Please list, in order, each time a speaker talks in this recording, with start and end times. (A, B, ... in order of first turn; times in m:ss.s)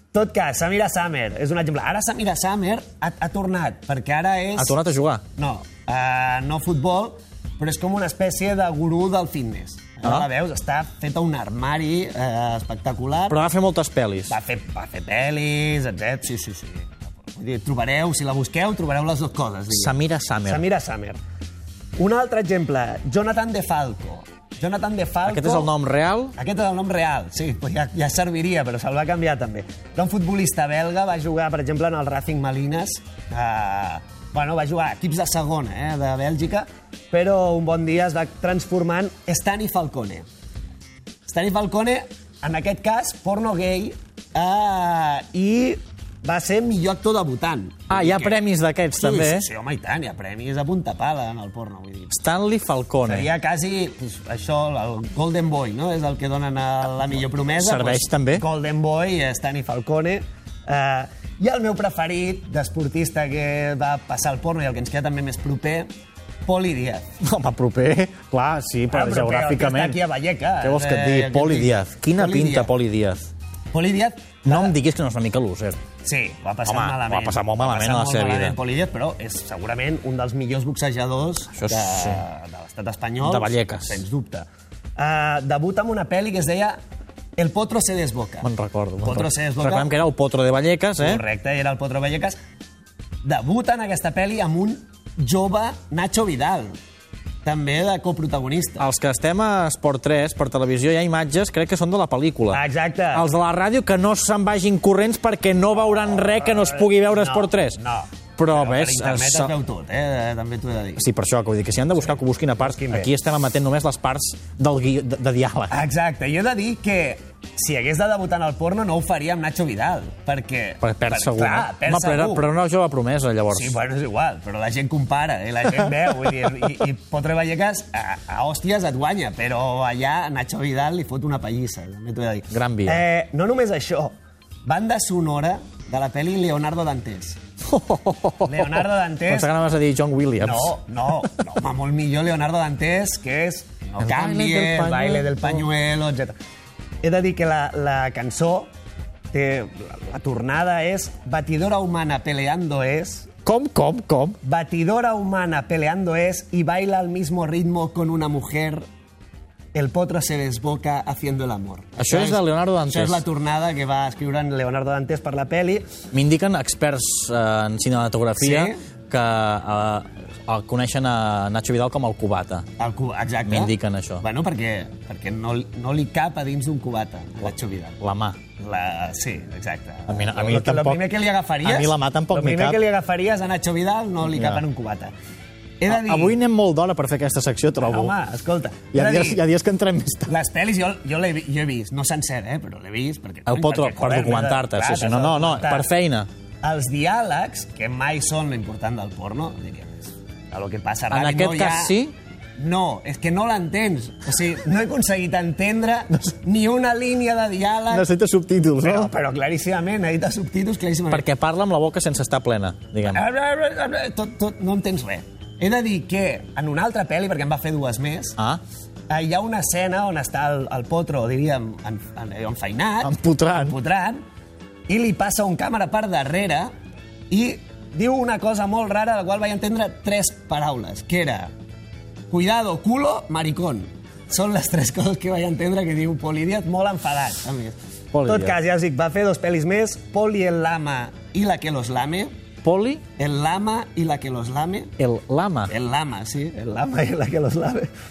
0:00.1-0:04.8 A
0:04.6-0:05.2 B
0:05.4-0:13.4 A
0:10.0-0:10.3 B
0:13.3-0:14.3 B
0:14.3-0:19.9 A
0:19.7-0:20.6 B
0:20.4-0:21.2 A
0:22.0-0:25.7 A
0:25.2-0:26.3 B
0:26.4-0:40.3 A
0:41.2-0:48.4 A
0:47.9-0:49.4 B
0:49.0-0:52.2 A
0:52.1-0:53.2 B
0:53.0-1:05.9 A
0:57.5-0:58.4 B
1:06.4-1:07.1 A
1:07.2-1:10.0 B
1:08.9-1:12.7 A
1:10.6-1:13.3 B
1:13.7-1:14.8 A
1:14.4-1:15.8 B
1:16.0-1:26.8 A
1:16.6-1:18.5 B
1:21.5-1:22.2 B
1:23.2-1:24.0 B
1:27.4-1:28.5 A
1:28.4-1:31.2 B
1:29.0-1:29.9 A
1:31.0-1:32.4 A
1:33.2-1:36.7 A
1:37.4-1:38.8 A
1:38.8-1:42.6 B
1:42.5-1:43.3 A
1:43.1-1:47.8 B
1:46.2-1:51.0 A
1:48.4-1:49.5 B
1:51.0-1:55.7 B
1:52.6-1:53.1 A
1:55.7-2:02.5 A
2:00.8-2:03.7 B
2:03.5-2:14.1 A
2:12.5-2:13.0 B
2:14.6-2:17.4 A
2:17.7-2:20.7 B
2:18.4-2:19.5 A
2:20.4-2:26.3 A
2:24.0-2:25.6 B
2:27.0-2:28.7 A
2:29.3-2:33.3 A
2:33.4-2:34.4 B
2:34.4-2:38.8 A
2:39.7-2:45.8 A
2:42.0-2:43.2 B
2:46.1-2:52.6 B
2:48.4-2:48.8 A
2:52.8-2:58.0 A
2:53.4-2:54.2 B
2:58.0-2:58.4 B
2:58.6-3:05.1 A
3:00.1-3:01.0 B
3:01.6-3:02.8 B
3:04.3-3:04.6 B
3:05.8-3:06.4 A
3:05.9-3:08.1 B
3:07.8-3:09.4 A
3:08.9-3:10.3 B
3:10.3-3:15.9 A
3:13.5-3:16.3 B
3:16.6-3:22.0 A
3:21.1-3:22.1 B
3:22.6-3:28.1 A
3:27.9-3:29.1 B
3:28.8-3:31.3 A
3:31.1-3:33.2 B
3:33.0-3:38.4 A
3:39.1-3:44.2 A
3:43.0-3:43.7 B
3:44.9-3:46.7 A
3:47.3-3:51.5 A
3:52.3-4:02.3 A
3:58.1-3:58.5 B
4:02.6-4:03.0 B
4:03.2-4:04.9 A
4:05.0-4:05.7 B
4:05.7-4:07.9 A